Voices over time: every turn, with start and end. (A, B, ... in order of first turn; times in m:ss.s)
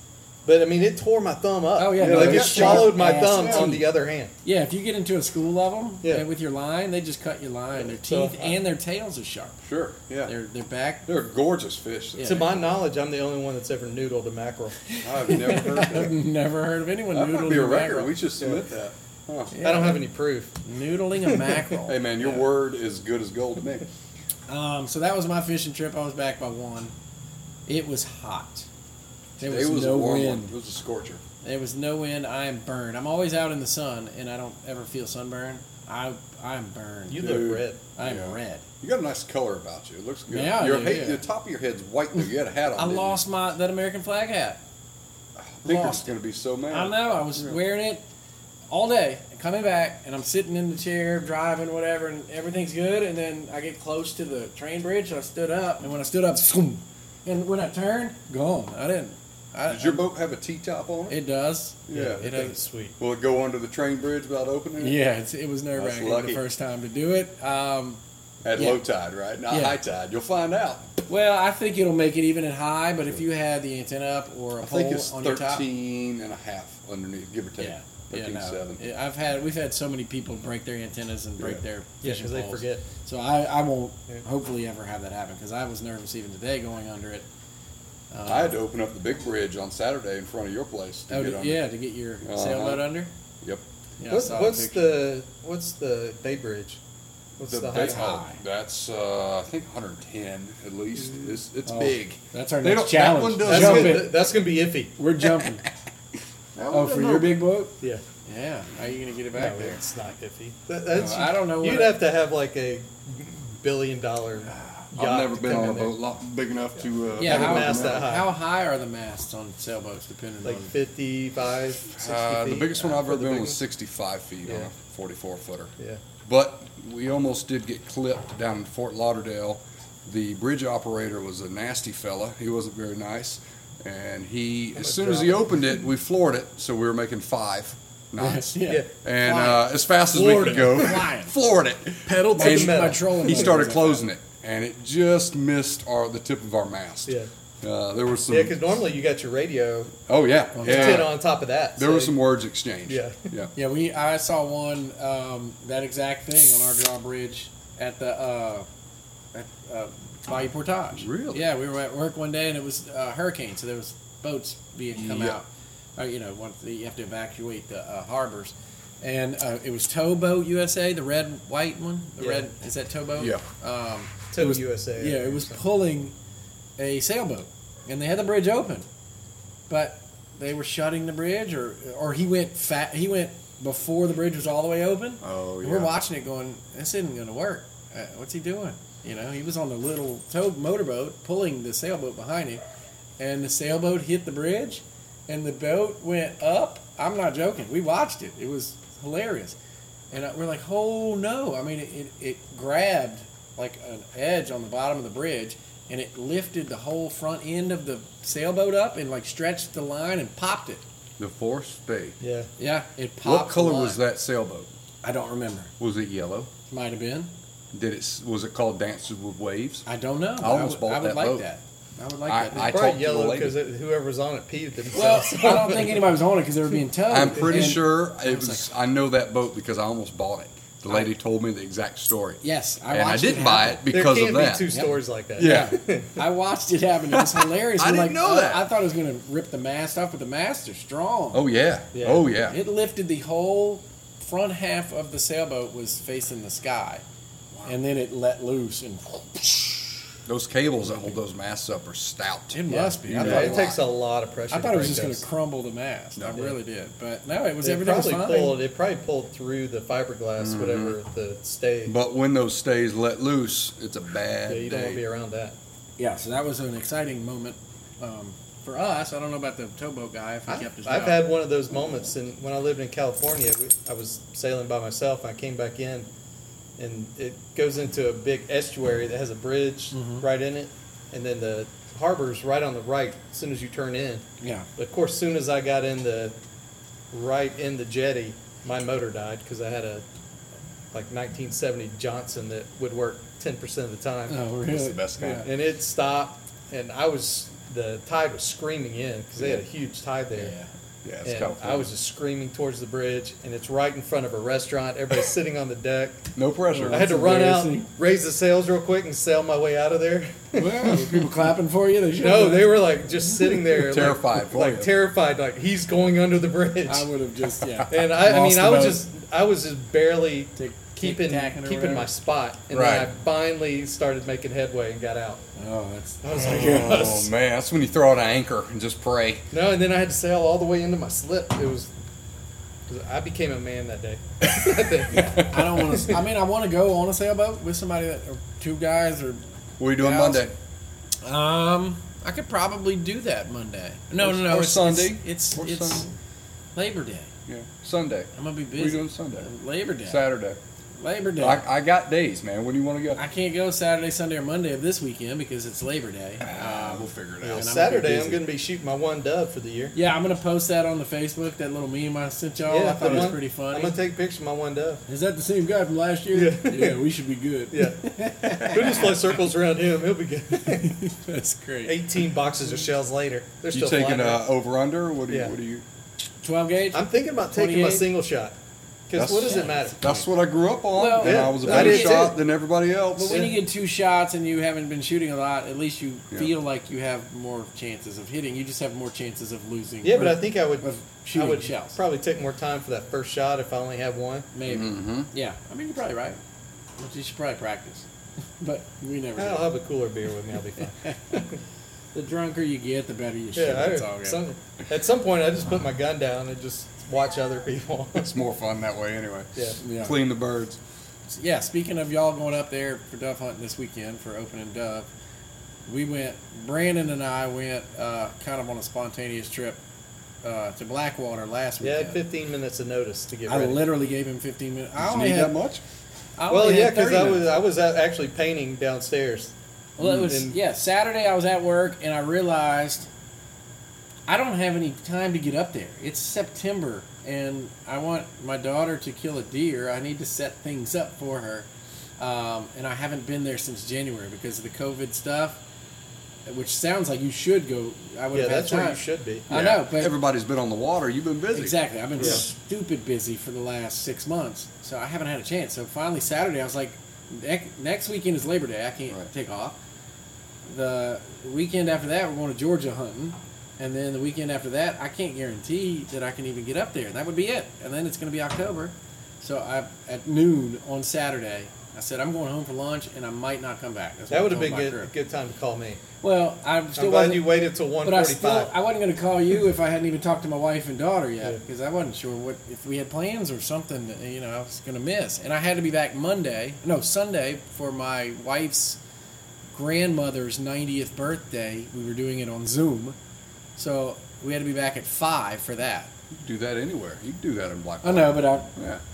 0:00.4-0:04.3 A
0:01.8-0:03.9 B
0:02.0-0:03.8 C
0:04.4-0:09.6 B
0:07.8-0:08.6 A
0:09.6-0:10.3 C
0:10.2-0:11.0 B
0:11.0-0:12.5 C
0:12.2-0:12.5 B
0:12.2-0:14.9 A
0:14.9-0:18.1 B
0:15.0-0:16.1 C
0:17.1-0:19.5 C
0:19.5-0:20.1 B
0:19.6-0:20.6 A
0:20.6-0:22.4 B
0:21.2-0:21.6 A
0:21.8-0:23.9 C
0:24.5-0:26.9 B
0:27.7-0:28.7 B
0:29.4-0:30.5 B
0:29.4-0:31.2 C
0:31.4-0:38.6 B
0:37.1-0:37.8 A
0:37.2-0:43.2 C
0:40.3-0:41.2 B
0:42.2-0:44.6 B
0:45.4-0:47.6 C
0:45.6-0:46.1 B
0:46.7-0:48.0 B
0:48.7-1:00.0 B
0:59.7-1:01.2 C
1:01.1-1:02.6 B
1:01.9-1:02.2 C
1:01.9-1:03.0 A
1:03.0-1:05.0 C
1:04.8-1:08.0 B
1:05.7-1:06.4 C
1:08.4-1:10.9 C
1:08.6-1:08.8 B
1:09.5-1:09.8 B
1:11.1-1:15.6 B
1:14.6-1:18.8 C
1:17.6-1:27.3 B
1:22.0-1:22.8 A
1:28.1-1:28.6 B
1:28.2-1:31.7 C
1:31.1-1:33.1 B
1:32.2-1:32.8 C
1:34.0-1:35.0 B
1:34.1-1:36.8 A
1:37.4-1:38.1 A
1:37.5-1:44.1 C
1:37.7-1:38.4 B
1:41.6-1:44.2 B
1:43.4-1:44.9 A
1:45.0-1:45.6 B
1:46.5-1:47.4 C
1:46.7-1:47.7 B
1:48.2-1:49.8 B
1:49.3-1:56.0 A
1:50.9-1:52.0 B
1:54.9-1:58.2 C
1:57.2-2:00.7 B
1:57.2-1:58.3 A
2:00.4-2:03.6 A
2:01.9-2:05.7 C
2:06.2-2:28.6 C
2:14.8-2:15.6 A
2:18.2-2:21.3 B
2:20.1-2:21.0 A
2:22.0-2:24.0 B
2:22.2-2:23.5 A
2:28.3-2:30.0 A
2:30.1-2:31.2 C
2:30.5-2:31.1 B
2:30.6-2:32.2 A
2:31.8-2:33.5 C
2:32.9-2:33.3 A
2:33.5-2:38.6 B
2:39.3-2:56.1 B
2:41.0-2:41.5 C
2:44.9-2:45.4 C
2:52.2-2:52.5 A
2:53.2-2:53.4 C
2:54.3-2:55.6 A
2:56.8-2:58.8 B
2:59.7-3:12.6 B
3:05.2-3:05.9 C
3:13.2-3:19.6 B
3:20.1-3:30.8 B
3:31.2-3:32.2 C
3:32.2-3:32.5 A
3:32.6-3:34.0 B
3:33.2-3:34.7 C
3:35.0-3:35.7 B
3:35.8-3:36.5 C
3:36.7-3:37.3 B
3:37.7-3:39.8 C
3:39.8-3:42.8 B
3:40.4-3:41.4 C
3:42.2-3:43.6 C
3:42.5-3:46.1 A
3:44.9-3:48.7 B
3:47.1-3:54.7 C
3:52.4-3:53.8 B
3:53.9-3:56.2 A
3:54.7-4:01.4 B
3:55.4-3:55.8 C
3:57.1-3:58.7 C
4:01.3-4:02.6 C
4:01.9-4:02.3 A
4:02.4-4:07.0 B
4:07.6-4:10.0 B
4:10.2-4:13.8 C
4:10.8-4:11.2 B
4:12.5-4:13.7 B
4:12.7-4:15.2 A
4:14.5-4:18.6 B
4:16.2-4:16.4 C
4:17.6-4:21.9 A
4:20.4-4:21.0 C
4:21.9-4:25.0 C
4:24.5-4:25.6 A
4:26.0-4:31.2 B
4:30.5-4:36.1 A
4:36.8-4:44.2 A
4:39.9-4:40.2 B
4:44.4-4:44.7 B
4:44.8-4:46.4 A
4:47.1-4:50.0 A
4:50.9-4:54.4 A
4:54.3-4:55.5 B
4:54.7-4:55.5 C
4:55.4-5:00.5 A
5:00.4-5:00.7 B
5:01.0-5:01.9 C
5:01.2-5:06.3 A
5:06.4-5:07.1 C
5:06.7-5:07.9 B
5:06.9-5:10.9 A
5:10.6-5:13.6 B
5:10.8-5:11.2 C
5:12.2-5:17.1 A
5:13.7-5:14.9 C
5:16.9-5:19.0 B
5:17.9-5:25.4 A
5:20.6-5:22.1 B
5:22.7-5:23.1 C
5:25.6-5:27.3 B
5:26.2-5:27.0 A
5:26.3-5:29.4 C
5:29.5-5:31.9 A
5:32.9-5:36.2 A
5:34.4-5:35.7 C
5:35.4-5:39.4 B
5:39.8-5:40.5 C
5:39.9-5:40.5 B
5:41.2-5:46.1 B
5:44.2-5:46.1 C
5:46.8-5:47.3 B
5:47.5-5:49.5 C
5:48.3-5:50.2 B
5:50.0-5:50.6 C
5:51.0-5:51.6 B
5:51.4-5:53.2 C
5:53.2-5:58.4 B
5:56.4-5:57.7 C
5:57.4-6:00.0 A
5:59.9-6:04.0 B
6:02.7-6:05.0 A
6:05.1-6:09.2 B
6:06.3-6:07.0 A
6:07.7-6:11.0 A
6:10.7-6:12.0 B
6:11.8-6:14.4 A
6:13.7-6:15.8 C
6:15.3-6:15.5 A
6:16.4-6:18.1 B
6:16.9-6:18.6 A
6:19.1-6:20.0 A
6:19.1-6:23.5 C
6:19.4-6:20.2 B
6:20.9-6:22.3 B
6:21.2-6:22.4 A
6:23.1-6:32.0 B
6:23.3-6:23.6 A
6:30.0-6:34.5 A
6:34.5-6:36.4 B
6:34.6-6:35.3 C
6:37.0-6:38.1 B
6:38.6-6:39.7 B
6:39.4-6:41.6 A
6:41.0-6:41.4 B
6:42.1-6:44.4 B
6:43.6-6:48.4 A
6:48.2-6:50.8 C
6:49.8-6:50.2 B
6:51.3-6:55.1 B
6:55.9-6:59.8 B
7:00.4-7:02.2 B
7:01.8-7:03.8 A
7:03.5-7:05.6 B
7:05.0-7:05.8 C
7:06.4-7:07.6 B
7:06.5-7:09.5 A
7:10.0-7:13.1 B
7:10.0-7:10.2 C
7:10.1-7:10.5 A
7:14.3-7:21.7 B
7:22.2-7:25.6 B
7:26.4-7:30.1 B
7:28.3-7:29.4 A
7:29.5-7:32.4 C
7:31.5-7:39.8 B
7:32.2-7:32.4 A
7:40.6-7:55.1 B
7:54.3-7:56.0 A
7:56.2-7:57.5 B
7:56.9-7:58.7 A
7:58.0-8:09.0 B
8:09.7-8:13.2 B
8:13.8-8:16.1 B
8:16.3-8:19.0 C
8:18.0-8:18.7 B